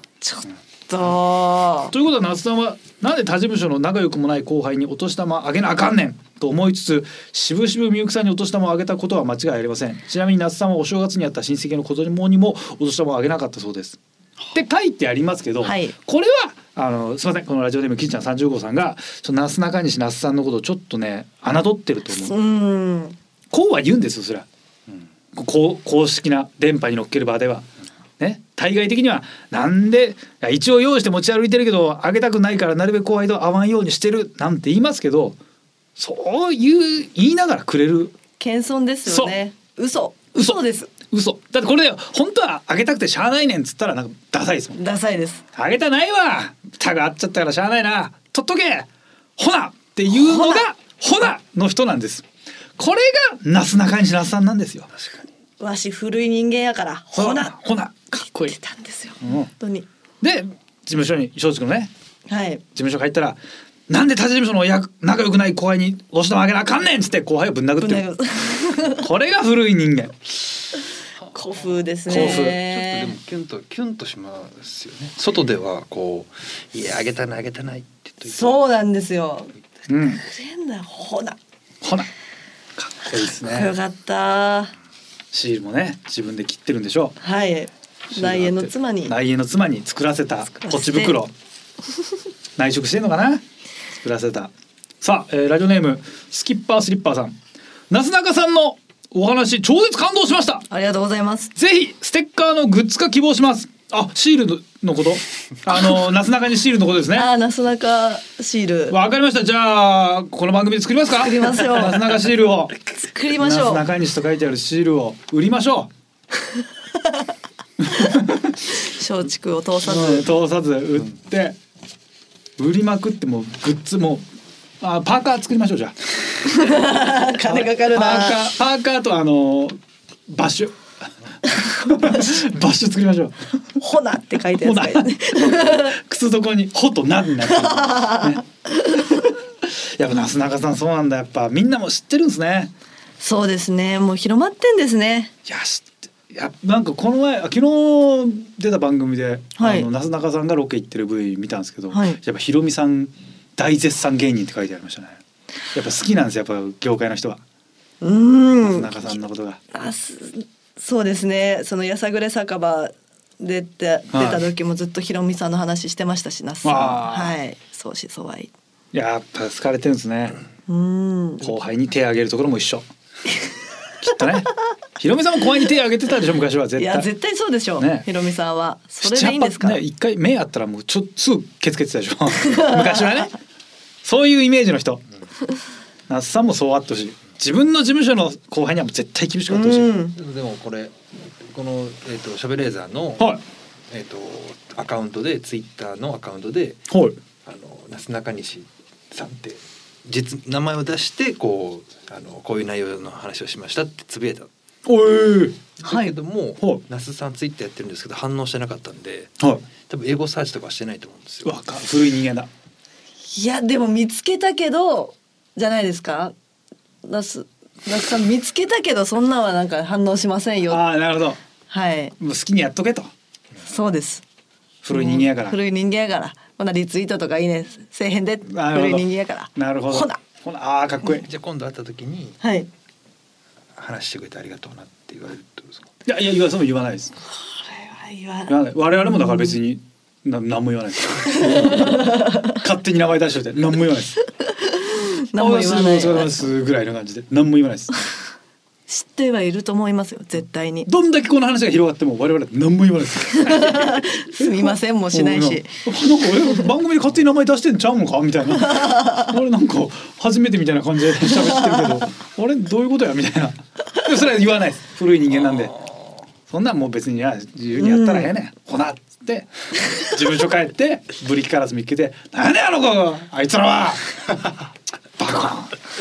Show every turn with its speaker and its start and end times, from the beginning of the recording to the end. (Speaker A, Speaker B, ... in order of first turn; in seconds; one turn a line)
Speaker A: 0.2-1.9
Speaker B: 1.9-14.0
Speaker B: 14.5-22.4
Speaker A: 15.6-15.9
Speaker A: 22.1-23.2
Speaker B: 23.5-24.5
Speaker B: 25.3-27.7
Speaker B: 28.2-35.4
Speaker B: 36.0-38.2
Speaker A: 38.4-40.9
Speaker B: 39.1-39.4
Speaker B: 40.4-44.8
Speaker A: 44.8-45.4
Speaker B: 45.5-52.3
Speaker A: 50.1-50.6
Speaker B: 52.8-54.9
Speaker C: 54.9-55.2
Speaker A: 55.6-57.5
Speaker B: 57.1-58.6
Speaker A: 58.2-59.9
Speaker B: 59.2-59.5
Speaker B: 60.2-61.9
Speaker A: 62.3-62.6
Speaker B: 62.8-63.4
Speaker B: 63.9-68.1
Speaker A: 67.8-69.0
Speaker B: 68.8-70.2
Speaker A: 71.3-73.1
Speaker C: 71.6-78.5
Speaker B: 72.1-72.6
Speaker A: 78.2-81.4
Speaker B: 79.9-80.2
Speaker B: 81.8-82.1
Speaker B: 82.8-83.7
Speaker A: 83.3-84.7
Speaker B: 85.3-87.2
Speaker A: 87.2-89.2
Speaker B: 88.1-91.3
Speaker A: 90.5-91.2
Speaker B: 92.6-93.4
Speaker B: 94.0-97.4
Speaker B: 97.9-100.7
Speaker A: 100.7-101.5
Speaker B: 101.6-107.3
Speaker A: 107.2-109.0
Speaker B: 108.9-112.7
Speaker A: 111.2-112.2
Speaker A: 112.8-113.8
Speaker B: 113.3-115.9
Speaker B: 117.8-118.5
Speaker A: 117.9-120.3
Speaker B: 119.8-121.6
Speaker B: 122.6-124.2
Speaker B: 124.8-126.9
Speaker A: 126.4-128.5
Speaker B: 127.5-129.8
Speaker B: 130.3-130.8
Speaker B: 131.5-133.4
Speaker A: 133.8-135.9
Speaker B: 134.5-138.4
Speaker A: 137.5-139.2
Speaker B: 139.0-142.7
Speaker A: 143.2-145.3
Speaker B: 145.5-155.2
Speaker A: 149.6-149.9
Speaker A: 151.9-152.2
Speaker B: 155.7-157.4
Speaker A: 158.0-159.2
Speaker B: 158.6-159.6
Speaker A: 159.7-168.5
Speaker B: 164.1-164.5
Speaker B: 166.6-167.4
Speaker B: 168.9-170.4
Speaker A: 170.7-171.5
Speaker B: 171.4-172.8
Speaker B: 174.0-177.1
Speaker A: 176.8-179.8
Speaker B: 177.8-178.1
Speaker B: 179.0-183.3
Speaker A: 182.4-183.3
Speaker B: 184.0-185.0
Speaker B: 186.1-189.9
Speaker A: 189.5-190.2
Speaker C: 190.2-193.3
Speaker C: 193.9-196.8
Speaker B: 196.9-197.2
Speaker C: 197.4-204.5
Speaker B: 204.9-205.8
Speaker C: 205.8-209.4
Speaker B: 209.4-209.6
Speaker C: 209.9-211.6
Speaker B: 211.4-212.5
Speaker A: 213.3-216.3
Speaker A: 217.0-220.8
Speaker B: 220.7-221.4
Speaker A: 221.7-222.1
Speaker B: 222.2-223.1
Speaker A: 223.6-224.2
Speaker B: 224.8-225.6
Speaker A: 224.9-230.2
Speaker B: 228.5-231.3
Speaker C: 231.1-232.4
Speaker A: 232.4-232.7
Speaker C: 233.8-235.9
Speaker B: 236.1-237.1
Speaker A: 237.4-239.6
Speaker B: 238.5-244.2
Speaker A: 241.3-242.6
Speaker A: 244.5-246.4
Speaker B: 245.4-247.9
Speaker A: 248.9-250.9
Speaker B: 250.9-265.8
Speaker A: 253.4-255.8
Speaker A: 258.7-259.3
Speaker B: 266.5-274.5
Speaker A: 267.8-268.3
Speaker B: 275.2-275.8